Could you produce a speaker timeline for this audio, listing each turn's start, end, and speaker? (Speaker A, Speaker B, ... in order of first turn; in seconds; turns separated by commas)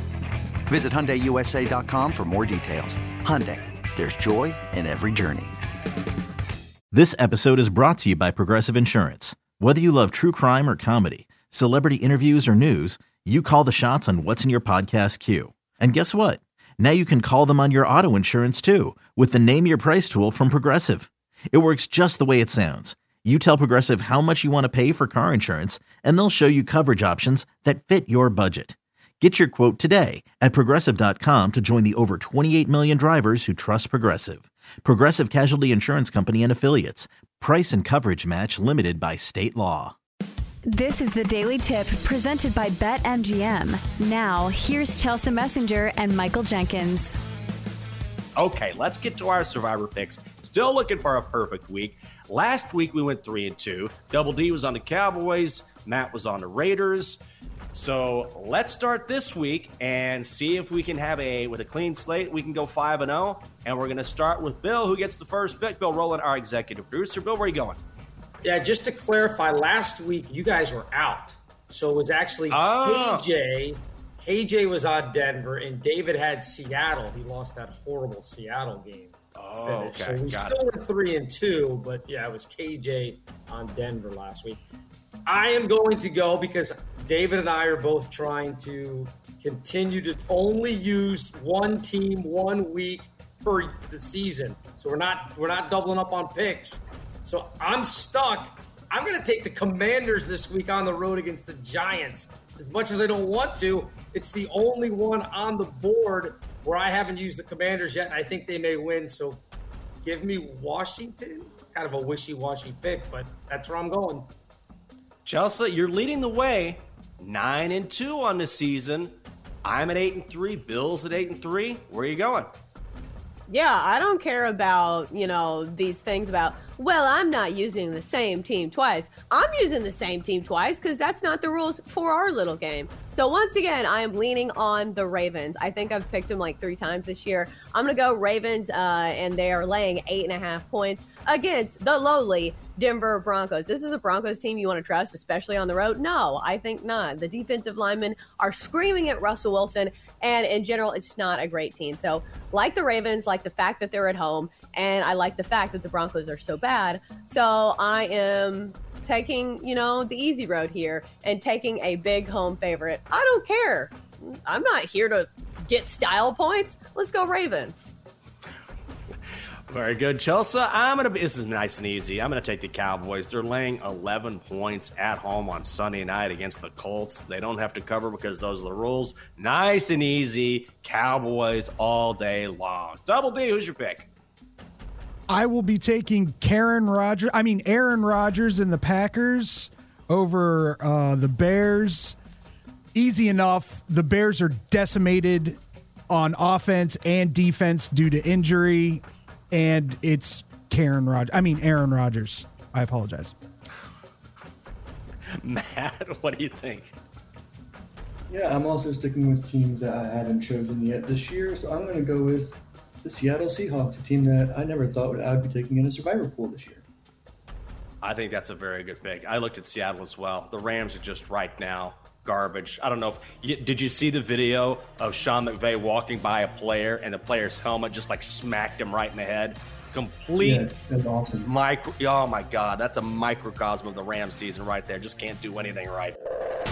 Speaker A: 0.7-5.5, Speaker B: 6.9-39.9, Speaker C: 40.6-47.2, Speaker D: 48.4-57.2, Speaker D: 57.7-67.8, Speaker E: 68.4-84.6, Speaker D: 72.5-73.3, Speaker D: 79.4-80.6, Speaker E: 85.3-109.4, Speaker E: 110.0-114.3, Speaker D: 115.2-119.1, Speaker D: 119.6-122.5, Speaker F: 123.5-167.9, Speaker D: 169.7-184.1, Speaker G: 185.3-192.2, Speaker G: 192.9-203.3, Speaker D: 205.4-206.9, Speaker H: 208.3-216.8, Speaker D: 218.0-230.7, Speaker H: 230.4-231.4, Speaker D: 231.4-236.1